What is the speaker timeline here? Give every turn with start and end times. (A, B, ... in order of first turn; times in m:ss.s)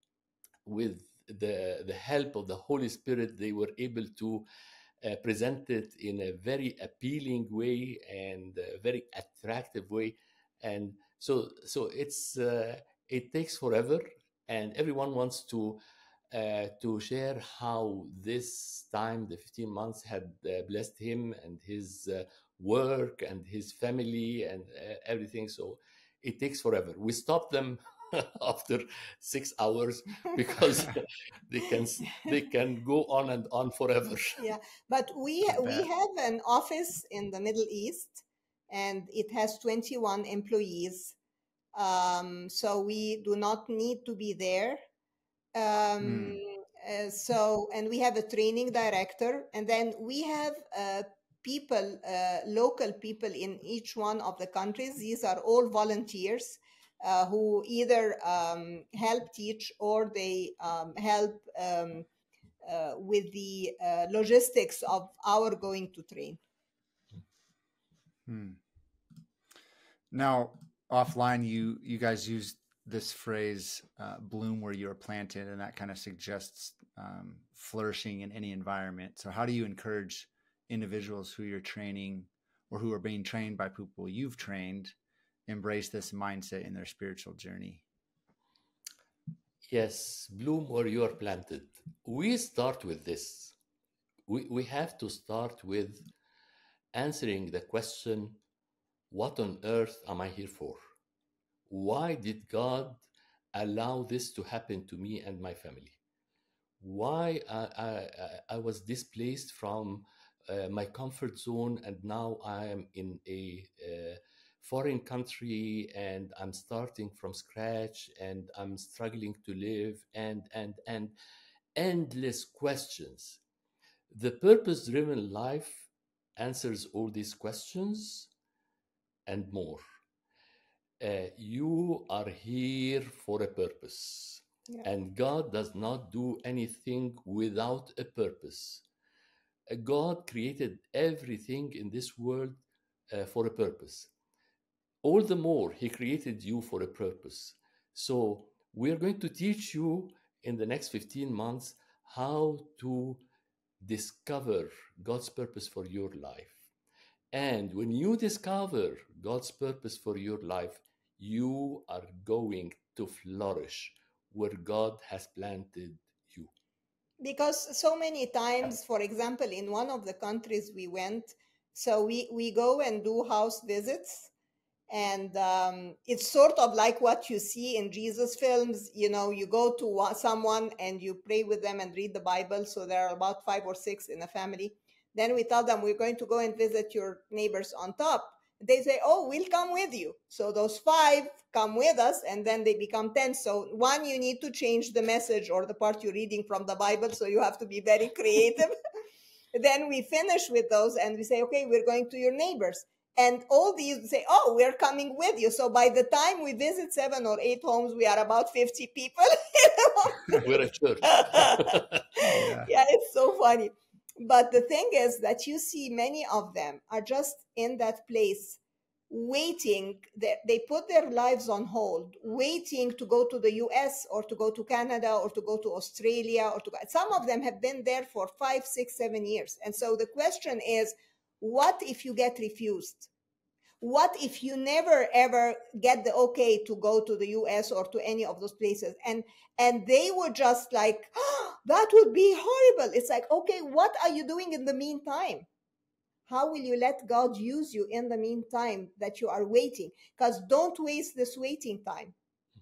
0:00.6-0:04.4 A
0:05.0-0:15.8 A
0:16.3-0:34.4 A
0:34.4-0:41.1 B
0:35.4-0:35.9 C
0:41.7-0:44.8 B
0:45.5-1:02.1 B
0:46.0-0:46.4 C
1:02.6-1:06.4 B
1:08.3-1:08.6 C
1:10.1-1:24.9 C
1:25.5-1:27.8 C
1:29.7-1:33.5 A
1:34.3-1:36.0 A
1:36.9-1:38.4 A
1:39.1-1:40.8 A
1:41.7-1:46.0 A
1:46.8-2:01.1 A
2:01.7-2:03.4 A
2:04.1-2:08.3 A
2:09.3-2:09.8 A
2:11.0-2:18.8 A
2:19.7-2:24.1 A
2:25.0-2:33.2 A
2:33.8-2:36.6 A
2:37.3-2:46.5 A
2:47.2-2:54.3 B
2:54.9-3:18.7 B
3:19.6-3:30.5 B
3:30.3-3:32.0 A
3:31.0-3:38.6 B
3:32.3-3:32.7 C
3:39.1-3:53.1 B
3:53.8-4:05.5 B
4:06.3-4:12.1 B